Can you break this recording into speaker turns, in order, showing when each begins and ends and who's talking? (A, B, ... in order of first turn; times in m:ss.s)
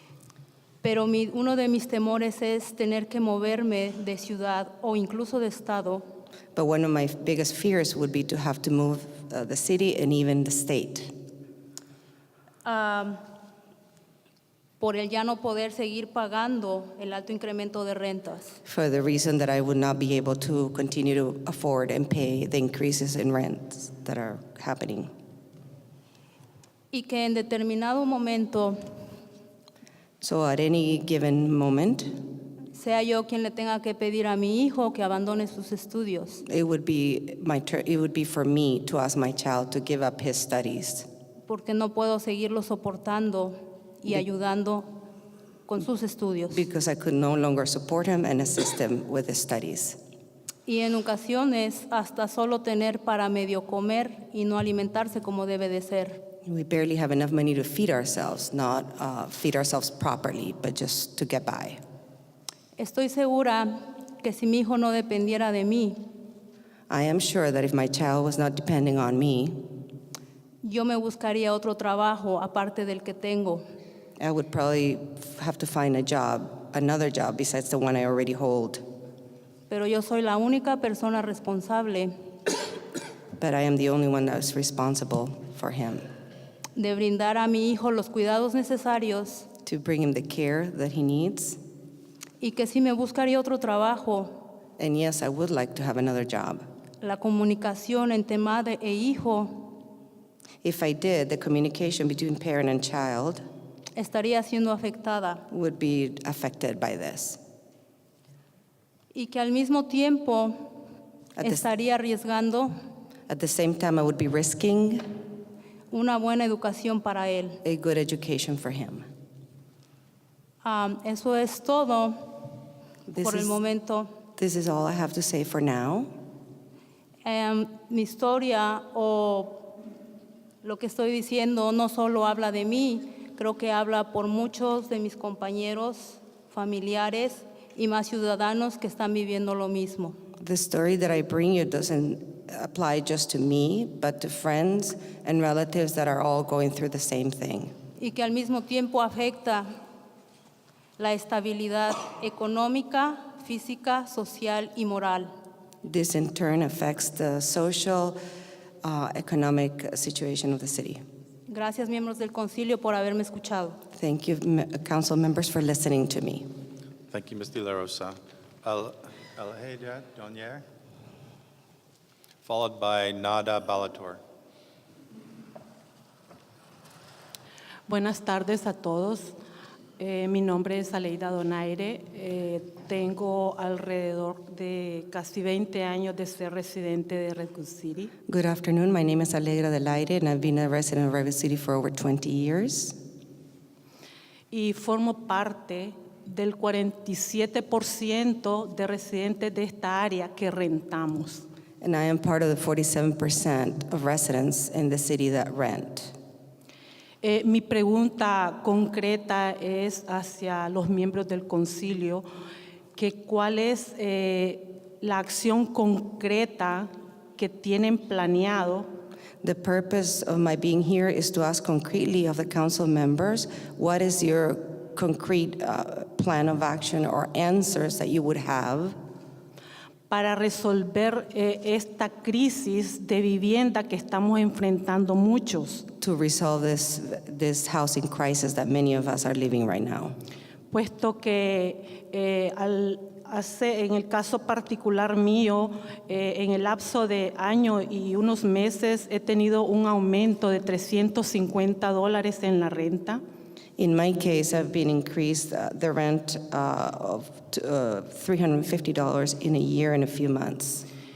0:00.8-0:06.0 A
0:06.5-0:11.1 B
0:12.6-0:13.2 A
0:14.8-0:18.6 A
0:18.6-0:25.1 B
0:26.9-0:28.8 A
0:30.2-0:32.1 B
0:32.7-0:36.4 A
0:36.4-0:41.1 B
0:41.5-0:44.9 A
0:45.7-0:46.6 A
0:46.5-0:50.0 B
0:50.6-0:56.2 A
0:56.4-1:01.8 B
1:02.8-1:06.0 A
1:06.9-1:09.6 B
1:10.6-1:13.6 A
1:14.2-1:18.8 B
1:19.7-1:22.1 A
1:23.4-1:26.0 B
1:26.8-1:29.5 A
1:29.6-1:31.6 B
1:32.4-1:34.3 A
1:34.8-1:36.6 B
1:37.0-1:39.7 A
1:40.6-1:43.4 B
1:44.0-1:45.4 A
1:45.5-1:47.4 B
1:49.1-1:50.6 A
1:51.4-1:51.6 B
1:51.4-1:52.7 A
1:53.3-1:55.0 B
1:55.9-1:57.6 A
1:57.6-1:59.0 B
2:00.6-2:02.3 A
2:03.1-2:03.6 B
2:03.2-2:04.1 A
2:04.4-2:06.1 B
2:07.2-2:09.6 A
2:10.6-2:20.2 A
2:20.4-2:27.7 B
2:28.0-2:29.7 A
2:31.0-2:35.3 A
2:35.8-2:38.2 B
2:38.8-2:41.0 B
2:41.5-2:43.8 A
2:43.9-2:46.4 B
2:47.1-2:50.6 C
2:52.4-2:54.2 C
2:57.9-2:59.4 D
3:00.0-3:08.1 D
3:08.3-3:12.9 B
3:14.5-3:21.4 D
3:21.8-3:26.1 B
3:27.2-3:32.2 D
3:32.9-3:38.8 D
3:39.4-3:49.0 B
3:50.1-3:55.8 D
3:56.0-4:00.2 B
4:00.7-4:13.2 D
4:13.8-4:20.8 B